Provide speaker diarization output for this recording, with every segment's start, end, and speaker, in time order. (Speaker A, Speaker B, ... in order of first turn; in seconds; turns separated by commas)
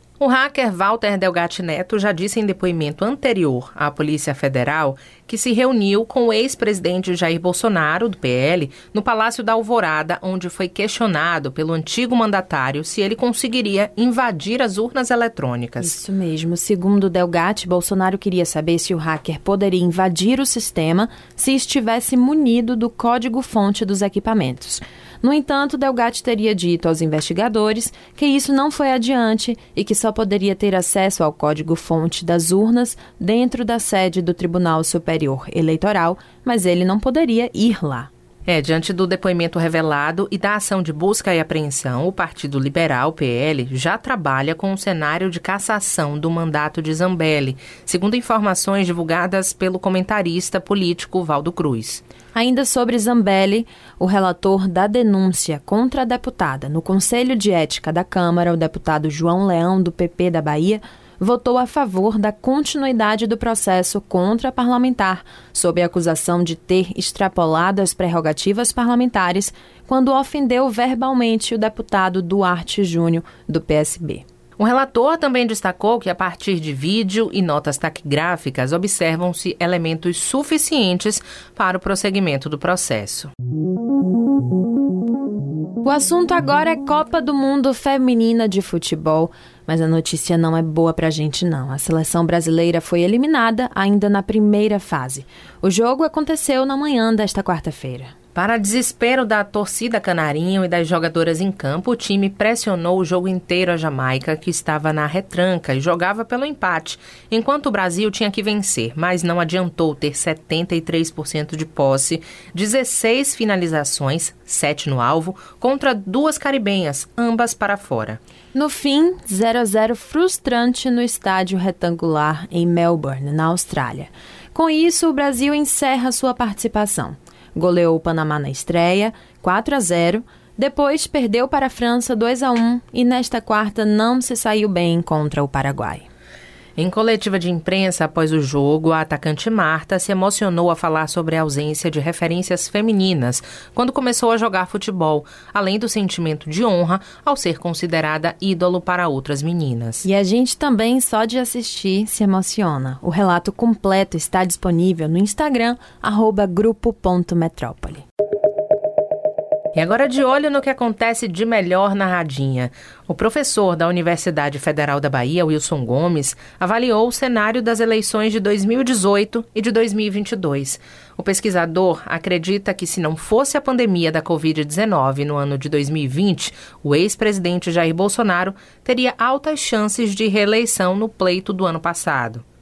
Speaker A: 0.2-16.0, Speaker B: 15.8-38.1, Speaker A: 38.5-52.0, Speaker B: 52.3-74.2, Speaker A: 74.6-83.3, Speaker B: 85.8-98.1, Speaker A: 98.3-118.2, Speaker B: 118.5-136.1, Speaker A: 136.8-150.0, Speaker B: 150.0-158.0, Speaker A: 159.7-182.4